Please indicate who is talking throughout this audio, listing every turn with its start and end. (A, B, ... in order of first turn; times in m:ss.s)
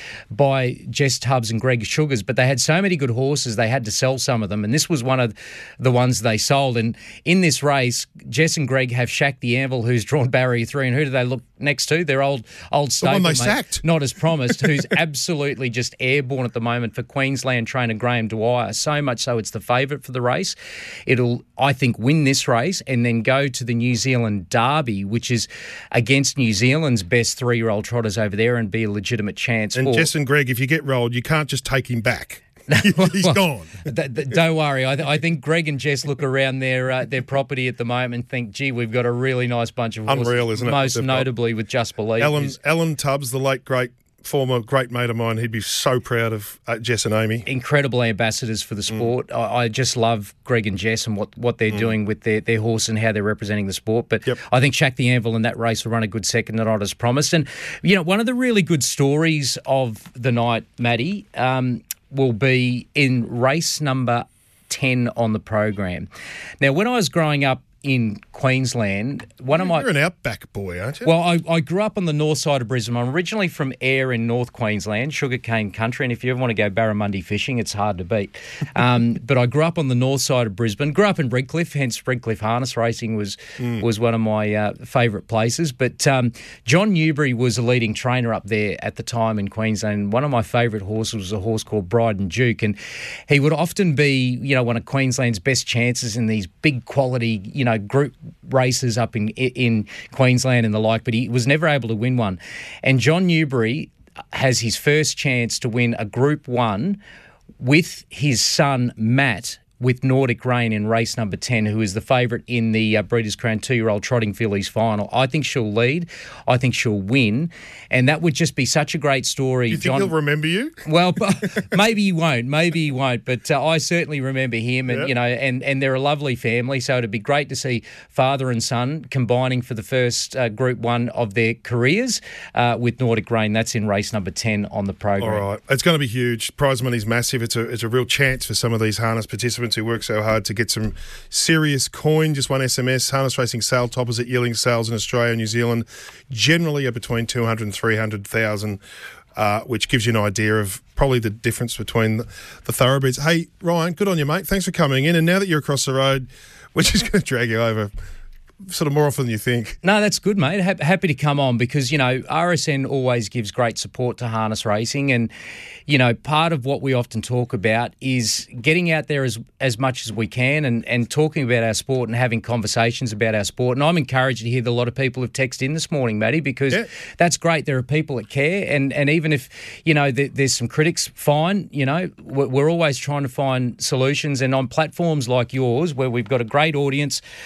0:00.3-0:20.6 A
0:13.0-0:13.8 B
0:21.1-0:30.1 A
0:29.7-0:33.8 B
0:32.7-0:42.6 A
0:40.1-0:41.3 B
0:42.2-0:47.4 B
0:47.4-1:06.1 A
1:06.6-1:09.9 A
1:09.6-1:11.1 B
1:11.0-1:47.0 A
1:47.6-2:00.1 A
1:59.7-2:00.8 B
2:00.8-2:15.4 A
2:15.2-2:28.8 B
2:29.3-2:37.9 B
2:38.6-2:39.8 B
2:39.8-2:45.3 A
2:45.9-3:07.2 A